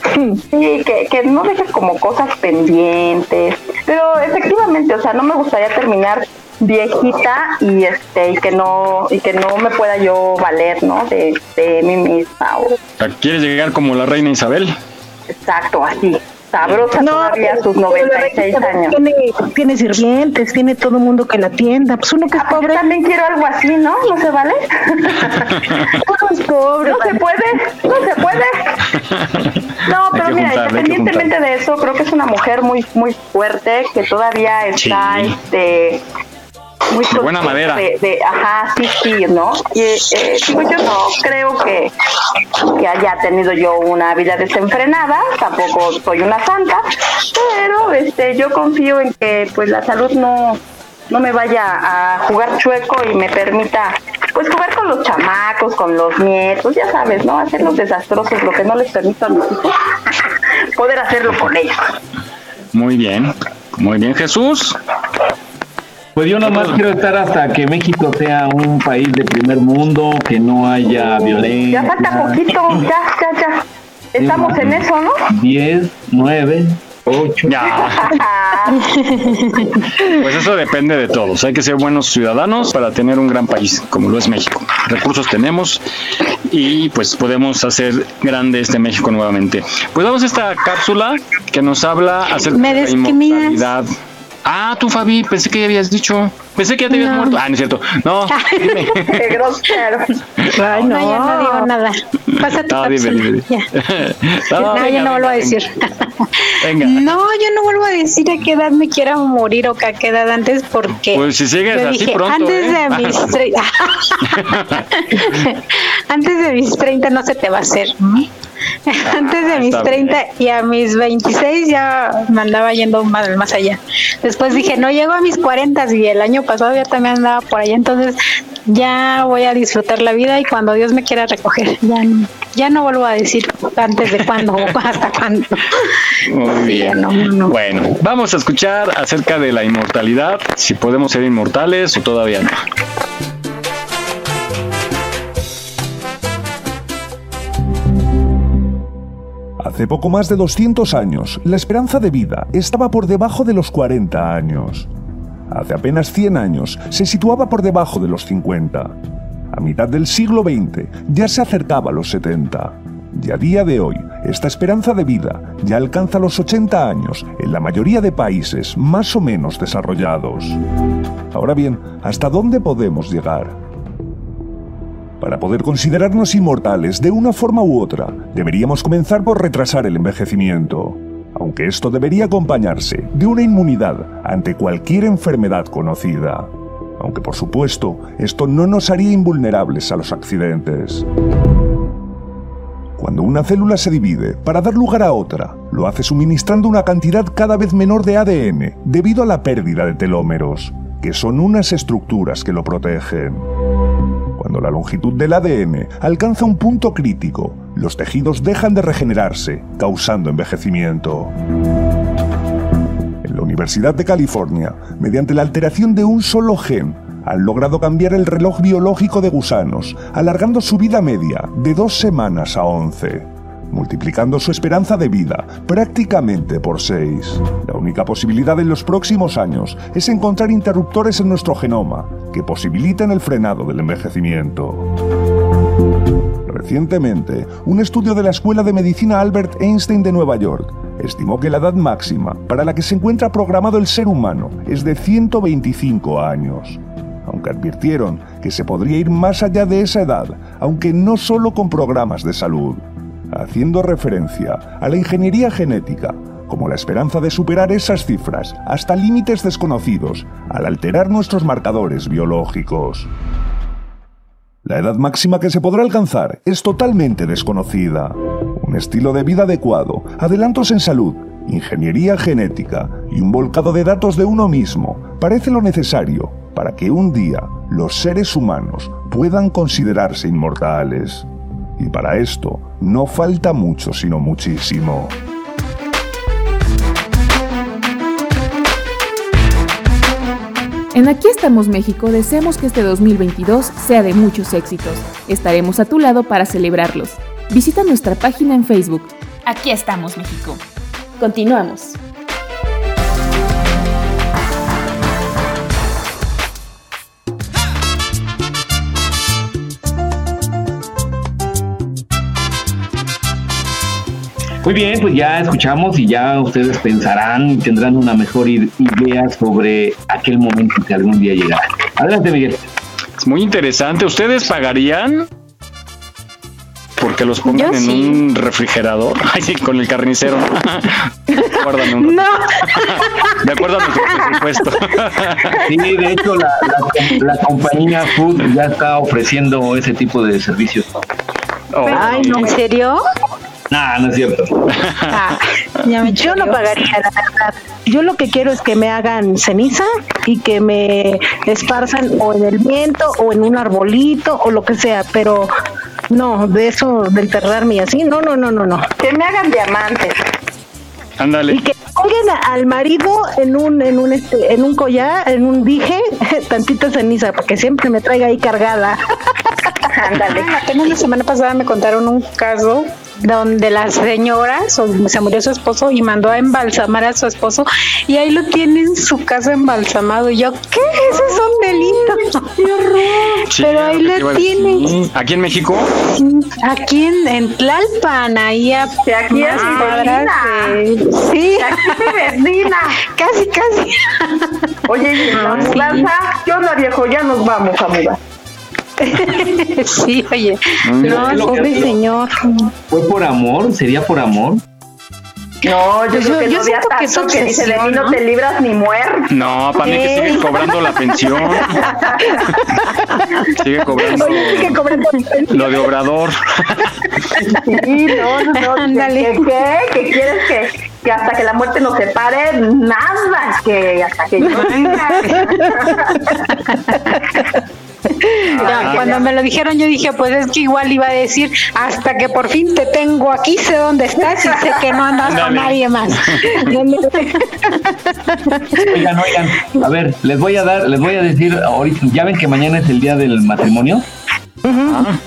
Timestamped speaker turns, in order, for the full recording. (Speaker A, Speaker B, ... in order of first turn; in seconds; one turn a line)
Speaker A: 0.5-12.7
Speaker B: 13.0-14.8
Speaker A: 15.3-18.9
Speaker C: 17.0-22.8
Speaker A: 22.4-25.5
Speaker C: 26.0-27.2
Speaker A: 26.8-28.6
Speaker B: 28.9-29.6
Speaker A: 29.9-36.0
Speaker B: 30.1-31.3
Speaker B: 34.8-35.4
Speaker A: 36.9-41.9
Speaker B: 37.1-37.8
Speaker A: 42.7-59.9
Speaker A: 60.8-61.8
Speaker B: 62.7-64.8
Speaker D: 66.2-72.8
Speaker B: 66.5-66.8
Speaker A: 71.7-75.1
Speaker D: 74.2-77.7
Speaker B: 77.5-78.1
Speaker A: 78.0-78.8
Speaker E: 78.8-79.8
Speaker B: 80.1-85.8
Speaker B: 86.5-93.9
Speaker E: 92.5-93.7
Speaker B: 94.4-99.2
Speaker E: 96.9-97.4
Speaker E: 98.3-98.9
Speaker A: 99.0-100.1
Speaker C: 100.5-101.7
Speaker E: 100.7-103.7
Speaker B: 102.4-105.6
Speaker E: 104.5-114.3
Speaker B: 106.6-107.0
Speaker B: 111.1-113.3
Speaker B: 114.3-114.9
Speaker E: 115.0-118.3
Speaker E: 118.9-135.9
Speaker B: 119.0-120.2
Speaker B: 136.3-142.6
Speaker E: 136.7-137.5
Speaker F: 149.6-154.9
Speaker F: 155.5-158.9
Speaker F: 159.5-170.6
Speaker F: 171.3-173.6
Speaker F: 175.2-191.0
Speaker F: 193.0-203.4
Speaker F: 204.4-211.3
Speaker F: 213.2-234.9
Speaker F: 236.4-263.1
Speaker F: 264.6-285.1
Speaker G: 290.9-300.6
Speaker G: 301.2-302.0
Speaker D: 314.6-322.6
Speaker B: 323.2-325.3
Speaker B: 327.0-335.6
Speaker E: 327.5-328.2
Speaker D: 335.7-340.9
Speaker B: 341.7-342.5
Speaker E: 341.9-343.0
Speaker C: 341.9-342.5
Speaker D: 343.7-344.6
Speaker B: 344.7-345.3
Speaker E: 345.1-346.6
Speaker C: 346.1-355.5
Speaker C: 356.1-358.9
Speaker A: 359.0-360.1
Speaker B: 361.2-361.6
Speaker C: 361.5-369.0
Speaker A: 369.9-370.6
Speaker E: 370.2-384.9
Speaker B: 383.5-385.9
Speaker E: 386.1-392.1
Speaker A: 389.0-390.8
Speaker A: 391.6-393.0
Speaker E: 392.9-394.5
Speaker A: 394.9-398.2
Speaker E: 395.3-396.1
Speaker B: 395.3-395.8
Speaker E: 399.0-401.9
Speaker B: 400.8-401.4
Speaker D: 401.0-401.9
Speaker C: 401.5-402.3
Speaker D: 402.9-404.6
Speaker A: 405.6-409.3
Speaker E: 406.1-408.2
Speaker B: 409.3-411.7
Speaker C: 410.1-410.4
Speaker A: 411.8-412.5
Speaker B: 413.6-414.8
Speaker C: 414.1-415.8
Speaker B: 415.5-416.9
Speaker A: 417.6-426.2
Speaker E: 418.6-419.4
Speaker C: 424.4-425.9
Speaker E: 424.4-427.2
Speaker B: 428.5-429.2
Speaker E: 428.6-436.8
Speaker A: 428.6-429.2
Speaker B: 435.2-436.8
Speaker C: 436.7-437.8
Speaker D: 438.8-444.0
Speaker C: 444.6-445.0
Speaker B: 444.9-445.2